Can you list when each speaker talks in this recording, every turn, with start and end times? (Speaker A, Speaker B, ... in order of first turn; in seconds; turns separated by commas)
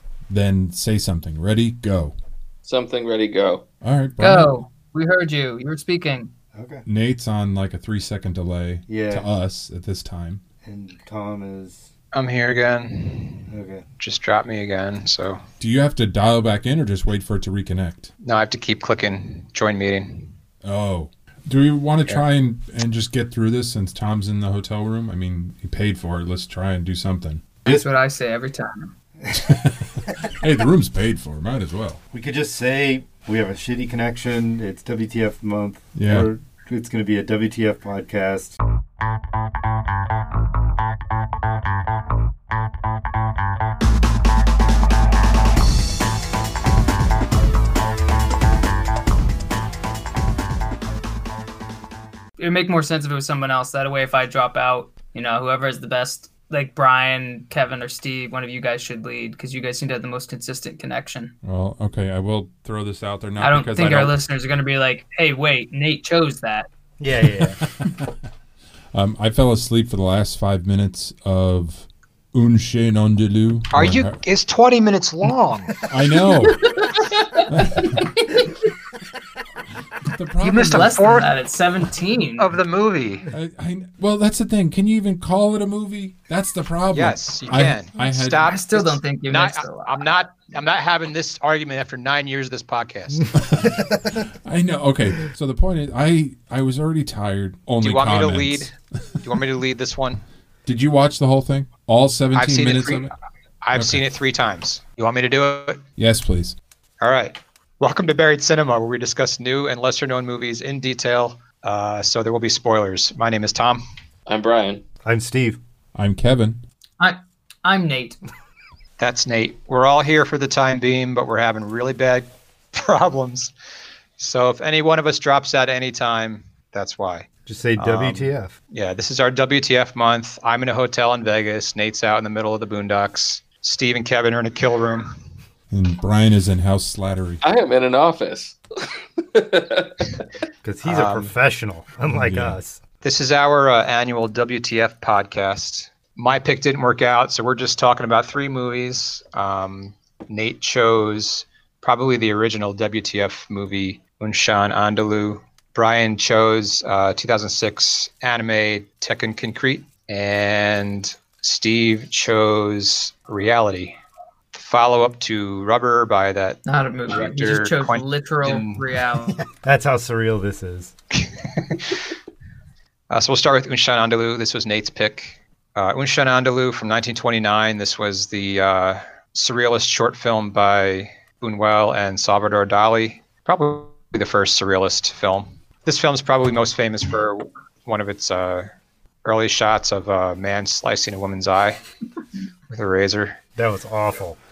Speaker A: 0.3-2.1, Speaker B: 2.6-3.6, Speaker A: 3.8-4.5, Speaker C: 4.2-6.3, Speaker D: 6.5-6.8, Speaker A: 6.8-10.4, Speaker D: 8.9-9.3, Speaker D: 10.6-11.9, Speaker E: 12.1-15.4, Speaker D: 13.5-13.8, Speaker A: 15.6-18.1, Speaker E: 18.2-20.3, Speaker A: 20.6-27.6, Speaker C: 27.6-28.9, Speaker A: 29.3-32.0, Speaker D: 32.1-38.6, Speaker A: 35.9-36.3, Speaker C: 52.4-61.3, Speaker A: 61.4-64.2, Speaker C: 63.4-66.7, Speaker D: 67.0-67.6, Speaker A: 67.2-68.1, Speaker A: 68.9-74.2, Speaker E: 73.7-75.8, Speaker A: 75.8-76.7, Speaker C: 76.4-78.6, Speaker A: 77.5-78.0, Speaker A: 80.0-81.0, Speaker E: 80.4-81.3, Speaker C: 80.6-82.6, Speaker E: 82.4-83.3, Speaker A: 83.3-88.5, Speaker E: 86.9-93.3, Speaker C: 88.4-90.1, Speaker A: 93.3-98.8, Speaker E: 97.8-100.2, Speaker A: 100.6-103.1, Speaker E: 102.3-103.1, Speaker E: 103.6-105.8, Speaker A: 103.7-104.0, Speaker A: 106.0-106.5, Speaker E: 107.0-113.8, Speaker B: 114.3-114.8, Speaker D: 115.0-115.6, Speaker A: 115.9-116.6, Speaker C: 117.0-118.2, Speaker E: 119.0-123.5, Speaker E: 124.2-135.2, Speaker D: 127.5-128.5, Speaker A: 135.7-137.4, Speaker B: 137.4-140.1, Speaker D: 140.6-142.8, Speaker E: 140.8-141.3, Speaker A: 142.1-142.6, Speaker E: 143.0-164.0, Speaker E: 164.5-168.8, Speaker C: 166.7-169.4, Speaker D: 169.5-170.9, Speaker E: 171.3-172.0, Speaker E: 173.1-188.7, Speaker E: 189.2-191.8, Speaker E: 192.7-193.4, Speaker D: 193.6-194.4